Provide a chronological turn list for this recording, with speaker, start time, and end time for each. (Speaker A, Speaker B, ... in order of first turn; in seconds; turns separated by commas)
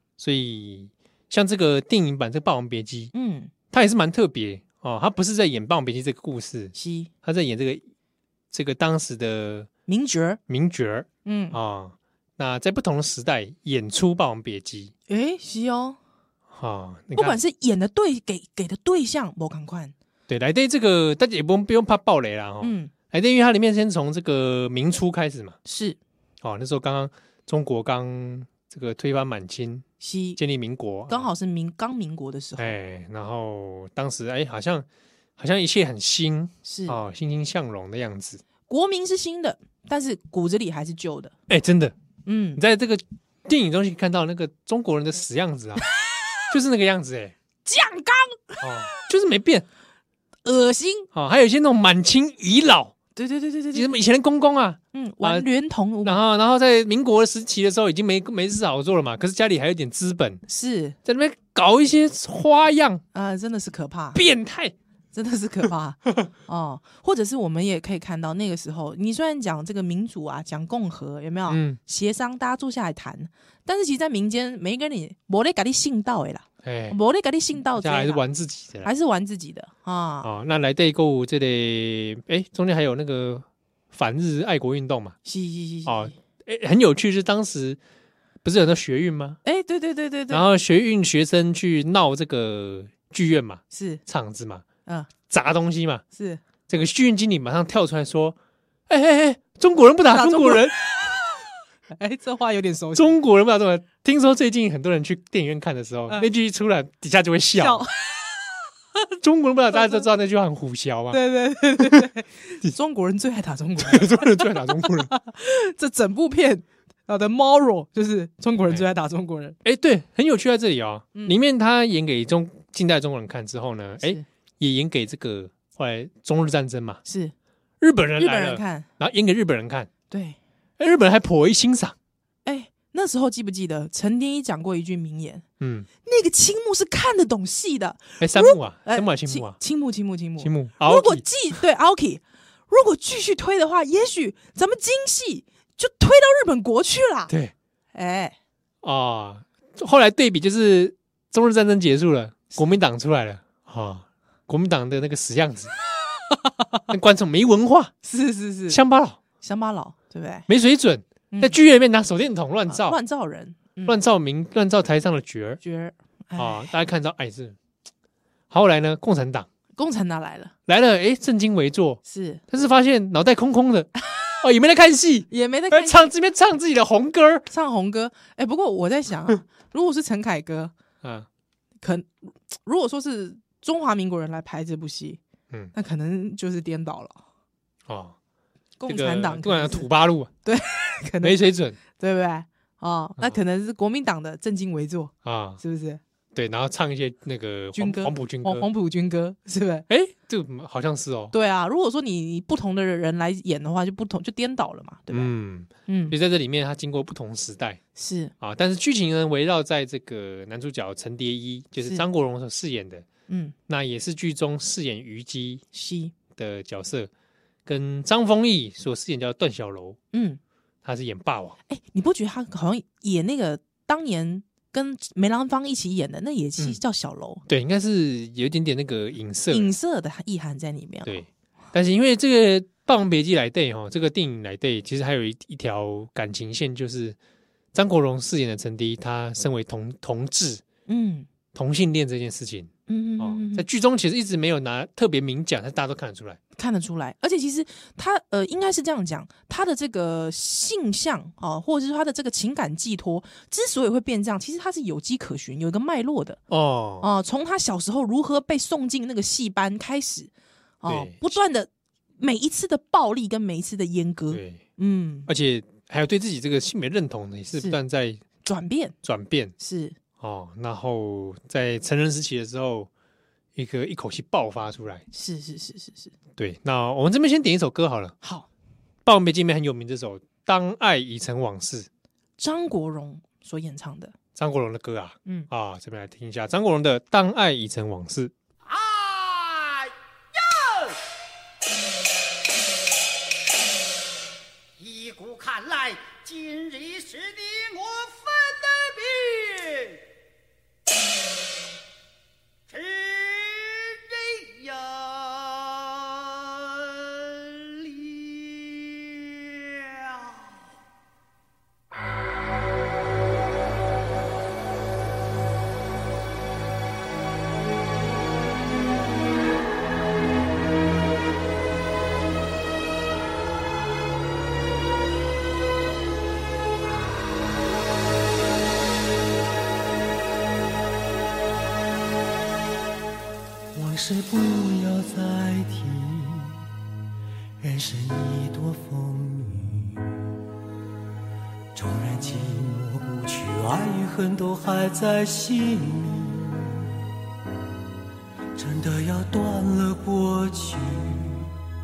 Speaker A: 0.2-3.1, Speaker B: 3.1-3.5, Speaker A: 3.7-7.8, Speaker B: 6.8-7.1, Speaker A: 8.5-9.7, Speaker B: 9.9-10.4, Speaker A: 10.5-14.9, Speaker B: 11.2-11.6, Speaker B: 15.1-16.0, Speaker A: 16.5-17.4, Speaker B: 17.1-19.9, Speaker A: 20.3-25.6, Speaker B: 22.6-22.9, Speaker B: 25.6-26.0, Speaker A: 26.4-29.9, Speaker B: 30.0-30.4, Speaker A: 30.4-31.3, Speaker B: 31.1-32.8, Speaker A: 32.6-34.9, Speaker A: 35.4-38.4, Speaker B: 36.6-37.0, Speaker B: 38.7-41.3, Speaker A: 41.5-41.9, Speaker B: 42.3-42.6, Speaker A: 42.6-45.8, Speaker A: 46.5-47.4, Speaker B: 47.6-48.9, Speaker A: 48.6-49.7, Speaker B: 50.5-51.1, Speaker A: 51.1-52.9, Speaker B: 53.2-54.0, Speaker A: 53.7-55.5, Speaker B: 54.9-56.2, Speaker A: 56.0-60.4, Speaker B: 60.5-61.0, Speaker A: 61.1-63.0, Speaker B: 63.1-64.2, Speaker A: 64.1-64.8, Speaker B: 65.1-78.2, Speaker A: 71.5-71.8, Speaker A: 76.6-77.0, Speaker A: 77.8-78.9, Speaker B: 78.8-80.3, Speaker A: 80.2-85.2, Speaker B: 85.2-86.1, Speaker A: 85.9-87.8, Speaker A: 88.4-89.4, Speaker B: 89.5-90.4, Speaker A: 90.3-94.7, Speaker B: 93.7-94.0, Speaker A: 95.3-96.0, Speaker B: 96.1-96.4, Speaker A: 96.7-98.4, Speaker A: 98.9-100.8, Speaker B: 100.1-103.2, Speaker A: 103.0-107.9, Speaker B: 107.6-108.4, Speaker A: 109.2-111.2, Speaker B: 109.8-110.0, Speaker B: 111.1-119.6, Speaker A: 111.8-112.0, Speaker A: 113.8-115.1, Speaker A: 119.6-127.0, Speaker B: 127.1-127.3, Speaker A: 127.8-129.9, Speaker B: 128.2-128.9, Speaker B: 130.1-130.4, Speaker A: 130.8-132.0, Speaker B: 132.4-135.4, Speaker A: 135.6-135.9, Speaker B: 136.1-147.3, Speaker A: 138.2-139.6, Speaker A: 140.4-141.3, Speaker A: 147.3-147.5, Speaker B: 147.9-148.4, Speaker A: 148.8-155.7, Speaker B: 156.3-156.8, Speaker A: 156.9-157.9, Speaker B: 158.0-158.8, Speaker A: 158.7-159.2, Speaker B: 159.4-160.5, Speaker A: 160.5-163.0, Speaker B: 161.3-161.6, Speaker B: 162.7-164.0, Speaker A: 163.9-165.6, Speaker B: 165.6-166.7, Speaker A: 166.4-167.6, Speaker A: 168.5-169.5, Speaker B: 169.8-170.5, Speaker A: 170.7-173.9, Speaker B: 172.1-172.4, Speaker A: 174.4-177.5, Speaker B: 175.3-176.1, Speaker B: 177.5-180.7, Speaker A: 181.0-181.3, Speaker B: 181.8-185.2, Speaker B: 185.7-187.2, Speaker A: 187.9-188.2, Speaker B: 188.8-189.9, Speaker A: 188.9-190.3, Speaker B: 190.4-196.0, Speaker A: 191.2-191.8, Speaker A: 195.2-195.6, Speaker A: 196.3-198.7, Speaker B: 197.8-199.9, Speaker A: 199.9-201.3, Speaker B: 201.3-205.3, Speaker A: 205.1-207.8, Speaker B: 205.9-206.2, Speaker B: 208.0-208.3, Speaker A: 208.4-213.1, Speaker B: 213.3-213.6, Speaker A: 213.7-215.6, Speaker B: 215.7-216.1, Speaker A: 216.3-217.1, Speaker A: 217.7-220.0, Speaker B: 220.1-220.4, Speaker A: 220.8-221.6, Speaker B: 221.7-227.4, Speaker A: 227.5-229.7, Speaker B: 229.5-231.2, Speaker A: 231.1-237.2, Speaker A: 237.7-240.6, Speaker B: 240.9-241.3, Speaker A: 241.5-246.4, Speaker B: 242.9-243.7, Speaker B: 246.6-256.4, Speaker A: 256.5-257.1, Speaker B: 257.0-260.3, Speaker B: 260.8-265.3, Speaker A: 260.9-261.3, Speaker A: 264.3-264.6, Speaker A: 265.3-268.2, Speaker B: 268.4-269.0, Speaker A: 269.0-269.5, Speaker B: 269.6-270.0, Speaker A: 270.2-272.9, Speaker A: 273.6-275.0, Speaker B: 275.1-276.1, Speaker A: 276.4-278.2, Speaker B: 278.2-278.5, Speaker A: 279.1-281.9, Speaker B: 282.4-284.1, Speaker A: 284.4-288.3, Speaker C: 288.7-291.0, Speaker C: 294.8-300.0, Speaker C: 302.7-310.4, Speaker D: 333.7-336.6, Speaker D: 337.6-340.3, Speaker D: 341.8-346.9, Speaker D: 348.6-351.6